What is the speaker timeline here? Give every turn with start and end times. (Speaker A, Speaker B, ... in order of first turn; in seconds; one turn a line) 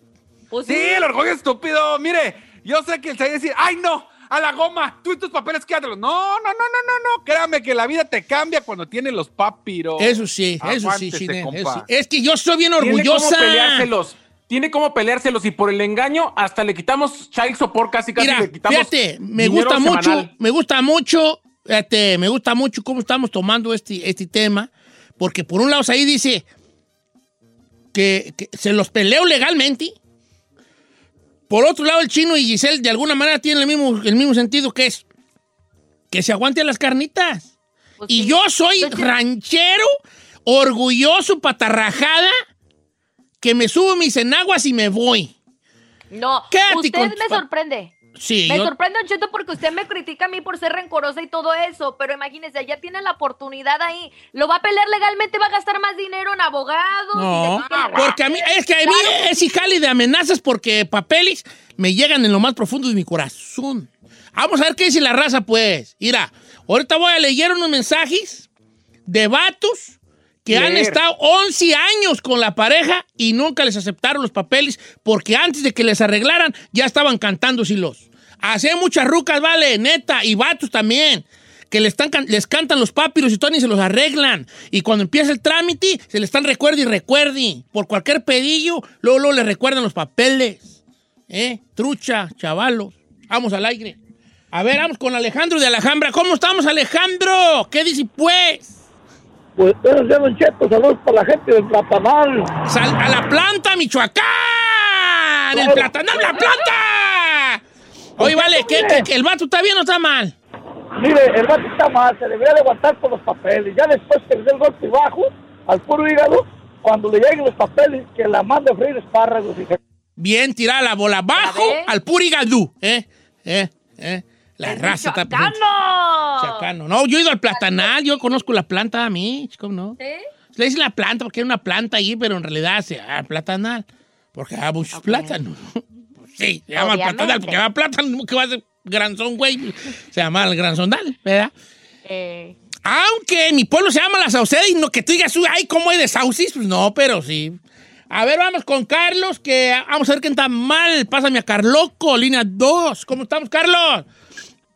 Speaker A: 0.5-1.1
Speaker B: 0.7-11.9
Speaker C: 10.0-13.9
Speaker D: 12.8-20.3
Speaker C: 18.2-26.5
Speaker C: 27.9-29.9
Speaker C: 31.5-35.1
Speaker C: 36.1-37.5
Speaker A: 38.0-39.1
Speaker C: 38.1-39.9
Speaker C: 40.5-42.3
Speaker C: 43.4-45.4
Speaker A: 46.1-48.0
Speaker C: 46.5-47.4
Speaker C: 48.1-48.7
Speaker A: 48.5-59.5
Speaker C: 57.1-68.5
Speaker B: 57.5-58.2
Speaker C: 69.1-90.8
Speaker D: 70.5-71.0
Speaker C: 91.3-94.0
Speaker C: 94.5-98.8
Speaker E: 99.6-102.5
Speaker C: 102.7-107.6
Speaker E: 105.5-105.9
Speaker C: 108.2-110.3
Speaker E: 108.2-109.1
Speaker E: 111.0-119.8
Speaker C: 120.2-125.6
Speaker A: 121.4-121.9
Speaker A: 124.7-126.7
Speaker C: 126.4-130.0
Speaker A: 127.5-128.2
Speaker A: 130.0-130.2
Speaker C: 130.6-141.5
Speaker A: 134.9-135.4
Speaker A: 136.8-137.6
Speaker A: 142.1-142.6
Speaker C: 142.8-154.1